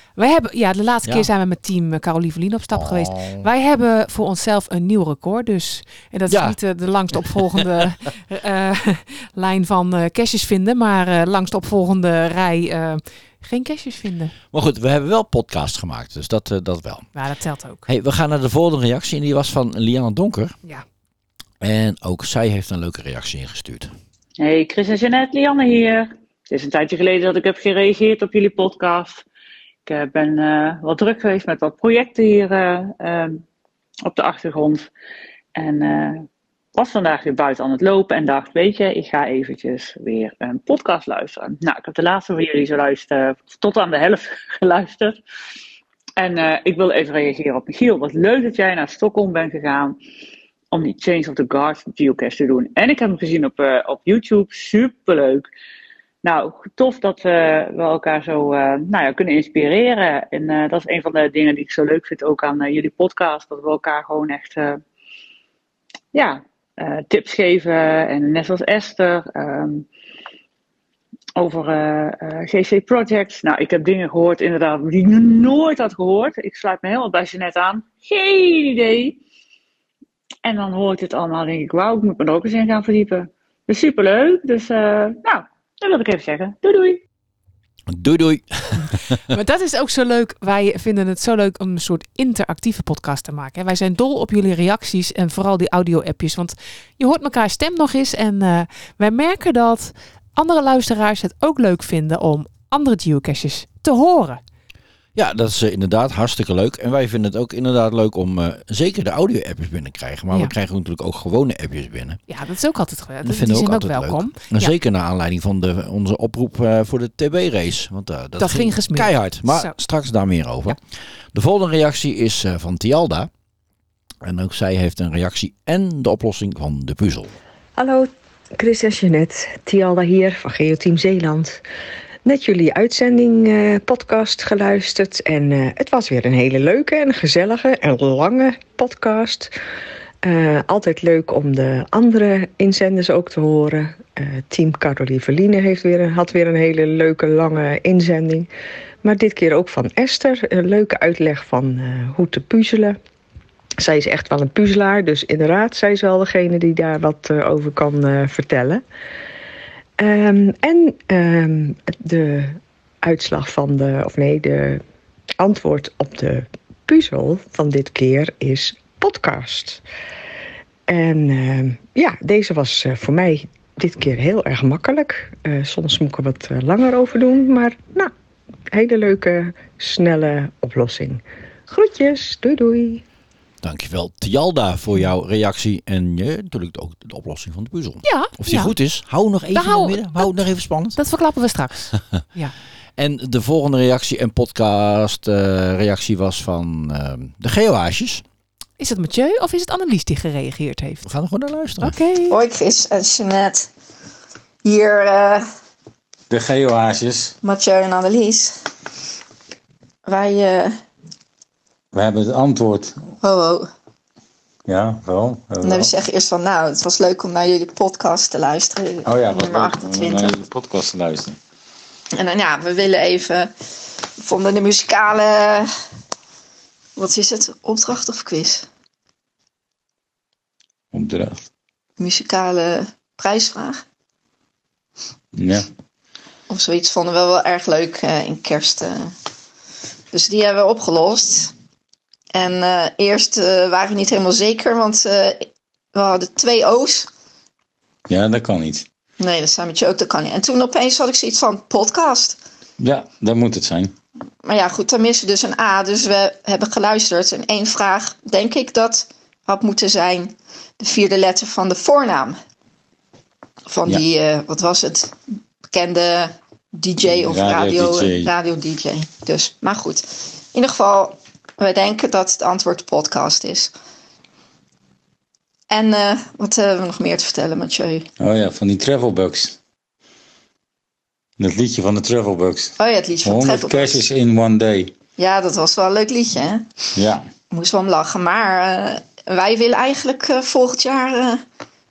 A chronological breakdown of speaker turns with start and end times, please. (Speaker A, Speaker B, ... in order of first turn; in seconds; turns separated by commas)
Speaker A: 0.1-14.3, Speaker B: 2.7-3.5, Speaker B: 6.3-6.5, Speaker B: 7.1-7.6, Speaker B: 14.5-17.1, Speaker A: 17.1-17.9, Speaker B: 17.9-20.5, Speaker B: 21.6-23.9, Speaker C: 24.4-29.2, Speaker C: 29.9-33.4, Speaker C: 34.0-34.9, Speaker C: 35.5-45.2, Speaker C: 46.2-50.0, Speaker C: 50.7-55.5, Speaker C: 56.2-64.8, Speaker C: 66.1-69.9, Speaker C: 71.4-79.2, Speaker C: 80.4-87.0, Speaker B: 87.9-89.2, Speaker A: 89.3-104.4, Speaker B: 105.1-112.2, Speaker A: 112.3-114.7, Speaker B: 113.2-120.8, Speaker A: 118.4-119.8, Speaker B: 121.3-123.3, Speaker B: 124.2-127.3, Speaker D: 127.8-131.6, Speaker D: 132.2-139.5, Speaker D: 140.2-148.5, Speaker D: 149.0-153.0, Speaker D: 153.8-158.8, Speaker D: 160.0-164.8, Speaker D: 165.4-169.8, Speaker D: 170.9-178.1, Speaker D: 178.7-183.0, Speaker B: 183.6-191.0, Speaker A: 188.0-188.7, Speaker A: 189.5-190.3, Speaker A: 190.9-192.5, Speaker B: 193.0-198.2, Speaker A: 198.8-201.0, Speaker B: 201.0-202.0, Speaker A: 201.8-202.3, Speaker E: 202.3-203.7, Speaker E: 204.6-205.4, Speaker F: 206.3-207.3, Speaker E: 207.4-208.6, Speaker E: 210.1-210.8, Speaker F: 211.9-213.0, Speaker E: 213.2-213.7, Speaker F: 214.7-215.9, Speaker E: 215.6-220.3, Speaker F: 219.1-221.3, Speaker E: 222.2-223.5, Speaker E: 224.2-225.7, Speaker E: 226.9-228.7, Speaker F: 230.9-231.4, Speaker E: 232.0-233.8, Speaker F: 235.3-235.6, Speaker E: 236.5-239.1, Speaker E: 240.1-241.5, Speaker E: 242.3-247.1, Speaker F: 248.1-248.8, Speaker E: 249.2-252.4, Speaker F: 252.8-253.9, Speaker E: 254.4-262.4, Speaker E: 263.7-273.7, Speaker F: 267.0-268.3, Speaker E: 275.7-278.0, Speaker F: 278.2-279.6, Speaker F: 281.4-282.7, Speaker E: 282.8-284.0, Speaker F: 283.2-284.9, Speaker E: 285.2-286.7, Speaker F: 286.9-287.2, Speaker E: 287.5-291.4